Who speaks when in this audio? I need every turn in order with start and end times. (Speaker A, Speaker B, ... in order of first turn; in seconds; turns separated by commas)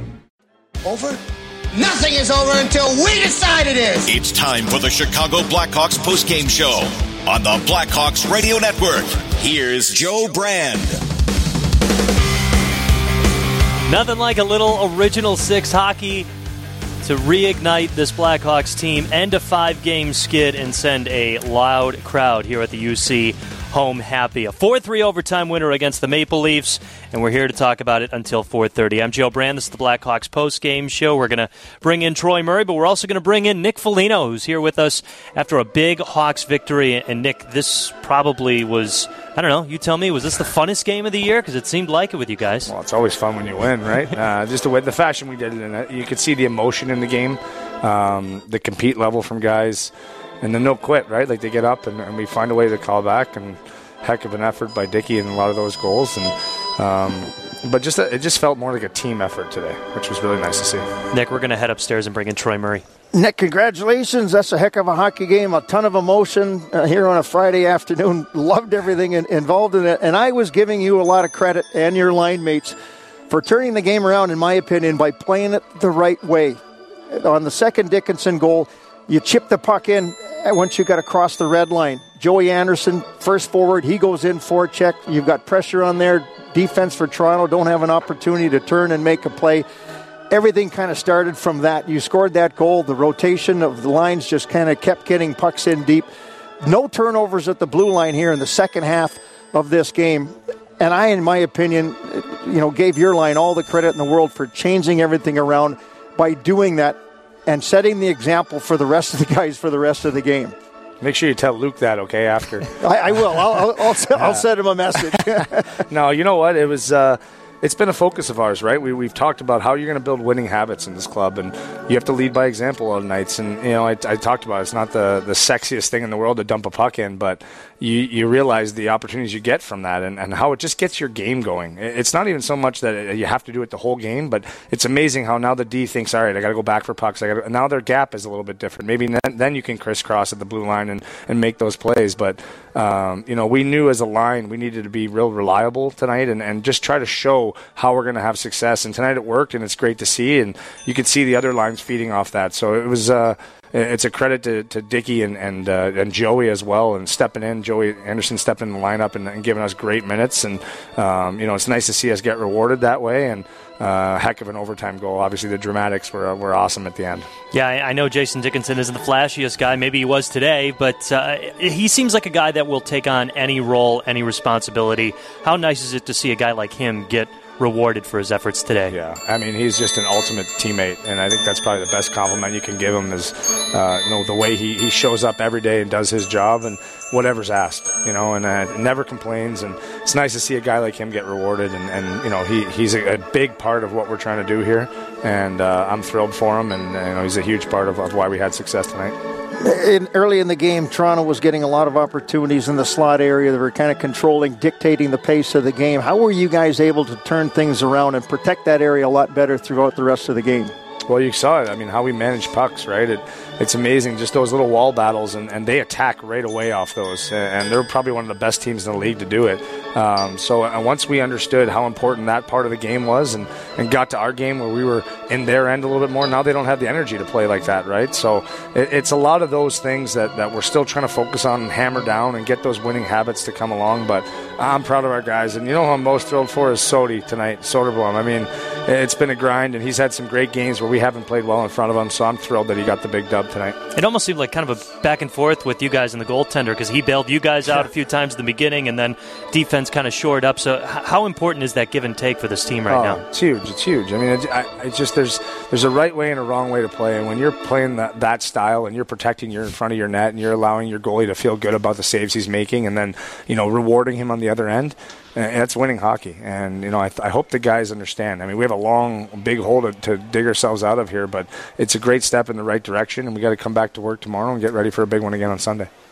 Speaker A: 0.8-1.2, Speaker A: 1.7-4.1, Speaker B: 4.0-11.0, Speaker C: 13.9-16.3, Speaker C: 17.0-42.7, Speaker D: 42.7-49.9, Speaker D: 50.4-60.9, Speaker C: 61.1-62.8, Speaker E: 63.1-72.8, Speaker E: 73.3-89.7, Speaker E: 90.3-96.1, Speaker E: 96.6-110.5, Speaker D: 111.0-112.7, Speaker E: 112.8-115.8, Speaker D: 113.3-113.6, Speaker D: 114.1-114.4, Speaker D: 115.0-167.3, Speaker C: 167.5-178.9, Speaker D: 178.9-199.2, Speaker E: 199.6-210.7, Speaker D: 211.1-243.8, Speaker C: 243.9-253.2, Speaker D: 252.9-275.9